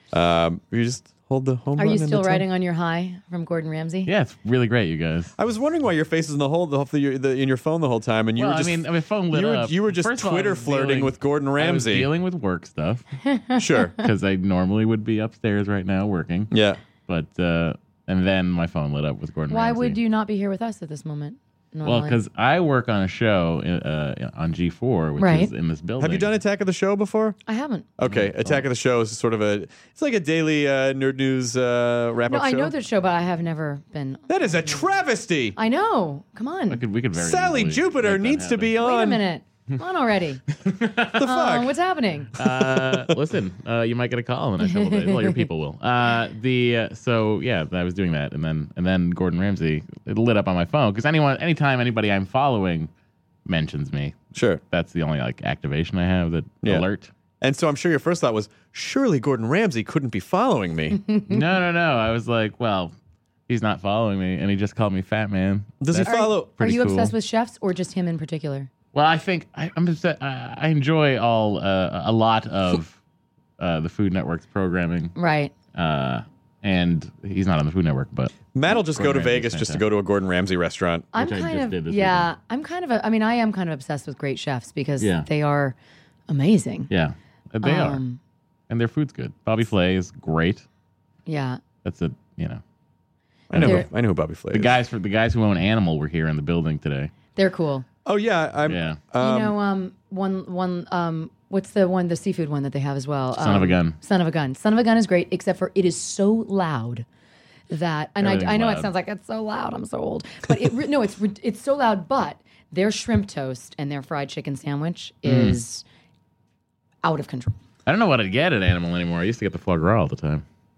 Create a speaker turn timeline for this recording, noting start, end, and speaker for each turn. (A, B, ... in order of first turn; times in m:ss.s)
0:00.1-0:02.4 A
0:01.8-0:04.1 B
0:04.0-0:05.3 C
0:05.4-0:12.1 A
0:08.4-0:13.0 C
0:13.3-0:14.0 B
0:13.6-0:13.9 A
0:14.0-0:16.5 C
0:16.5-0:16.8 A
0:17.1-0:20.0 C
0:19.5-0:22.2 B
0:21.8-0:26.3 C
0:25.2-0:25.5 B
0:26.0-0:27.4 A
0:27.5-0:27.9 B
0:28.0-0:32.7 A
0:28.0-0:28.6 C
0:32.3-0:34.8 B
0:34.3-0:35.6 A
0:35.6-0:36.8 B
0:36.7-0:38.8 C
0:37.1-0:39.2 A
0:38.8-0:40.4 B
0:40.6-0:41.2 C
0:41.1-0:41.7 A
0:41.2-0:42.3 B
0:42.4-0:52.9 C
0:42.4-0:43.1 A
0:44.6-0:45.5 B
0:53.4-0:57.1 C
0:54.3-0:54.6 A
0:57.4-1:01.0 A
1:00.9-1:01.4 B
1:01.3-1:02.9 C
1:03.5-1:07.1 C
1:05.8-1:06.5 A
1:06.0-1:08.7 B
1:08.9-1:13.0 C
1:13.6-1:15.1 C
1:15.2-1:15.5 B
1:15.7-1:19.8 C
1:18.5-1:21.1 A
1:21.1-1:25.8 B
1:21.2-1:22.3 C
1:25.0-1:25.3 C
1:26.3-1:26.9 B
1:26.9-1:28.0 C
1:27.6-1:28.2 B
1:28.7-1:30.6 C
1:31.3-1:31.6 B
1:31.8-1:32.6 C
1:33.5-1:34.7 A
1:33.5-1:33.9 B
1:33.5-1:33.8 C
1:34.5-1:37.1 C
1:37.4-1:37.8 B
1:38.0-1:39.6 A
1:38.7-1:39.0 C
1:39.2-1:47.0 B
1:43.4-1:44.0 C
1:47.7-1:55.8 B
1:48.2-1:48.9 C
1:55.2-1:55.6 C
1:57.0-1:57.6 B
1:57.8-2:00.4 C